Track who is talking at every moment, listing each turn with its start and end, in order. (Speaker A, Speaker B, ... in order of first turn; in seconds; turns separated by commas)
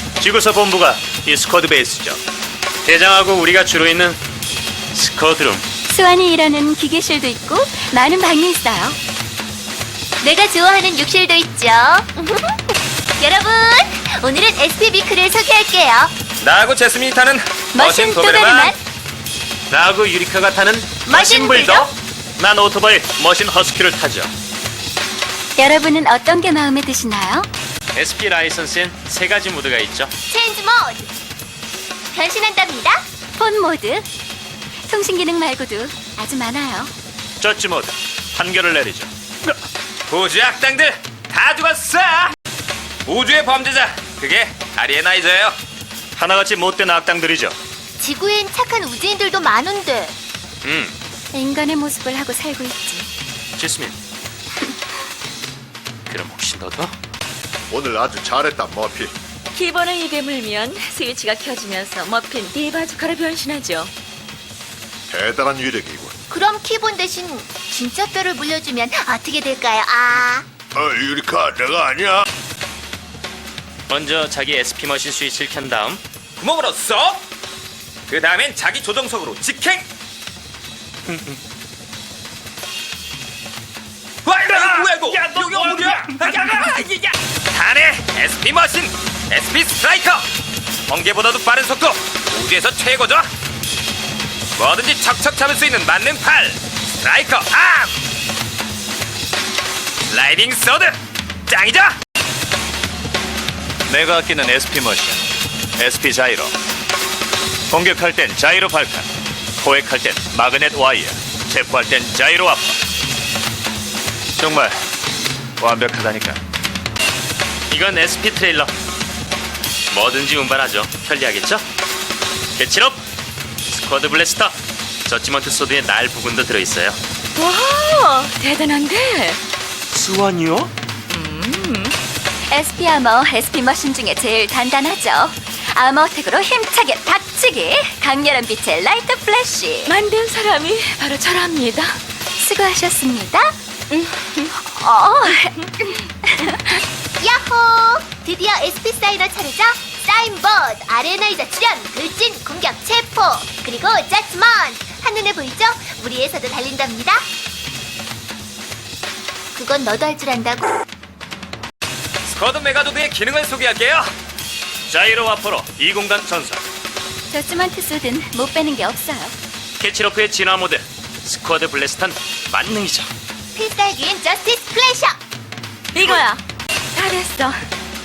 Speaker A: 0.2-2.2, Speaker A: 2.9-4.2, Speaker A: 4.9-5.7, Speaker B: 5.9-9.0, Speaker C: 10.2-16.1, Speaker D: 16.4-18.7, Speaker B: 17.7-18.8, Speaker A: 19.7-24.3, Speaker C: 21.0-21.9, Speaker B: 25.6-27.5, Speaker A: 27.9-30.1, Speaker C: 30.3-31.1, Speaker C: 32.1-33.0, Speaker B: 33.4-34.0, Speaker B: 34.9-36.9, Speaker A: 37.4-39.1, Speaker D: 40.1-42.3, Speaker D: 43.0-45.6, Speaker A: 46.2-47.5, Speaker C: 48.0-50.1, Speaker A: 50.6-50.9, Speaker B: 51.3-53.1, Speaker A: 53.6-54.0, Speaker A: 56.1-56.9, Speaker E: 57.7-59.1, Speaker F: 59.5-63.9, Speaker E: 65.1-66.1, Speaker C: 66.3-70.4, Speaker E: 70.8-72.1, Speaker A: 73.9-76.0, Speaker D: 76.4-77.2, Speaker D: 78.1-79.8, Speaker A: 81.1-81.3, Speaker D: 84.2-90.2, Speaker A: 84.5-86.7, Speaker D: 90.9-93.3, Speaker D: 94.5-97.9, Speaker D: 100.0-102.0, Speaker A: 103.9-105.2, Speaker A: 105.8-106.5, Speaker A: 107.7-109.0, Speaker A: 109.6-112.7, Speaker A: 114.4-114.8, Speaker A: 115.6-116.4, Speaker A: 117.7-118.7, Speaker A: 119.9-121.6, Speaker A: 122.5-123.0, Speaker A: 123.7-124.5, Speaker A: 125.0-127.0, Speaker F: 127.3-129.4, Speaker A: 130.2-130.7, Speaker F: 131.1-131.9, Speaker B: 132.5-139.9, Speaker F: 139.8-142.0, Speaker B: 142.4-143.5, Speaker F: 143.9-144.5, Speaker B: 144.7-146.5, Speaker F: 145.2-145.5, Speaker C: 147.2-157.2, Speaker C: 159.5-160.8, Speaker D: 162.2-164.1, Speaker A: 164.9-166.6, Speaker B: 167.3-169.3, Speaker A: 169.8-173.1, Speaker C: 173.5-175.2, Speaker F: 175.9-176.4, Speaker F: 176.9-177.7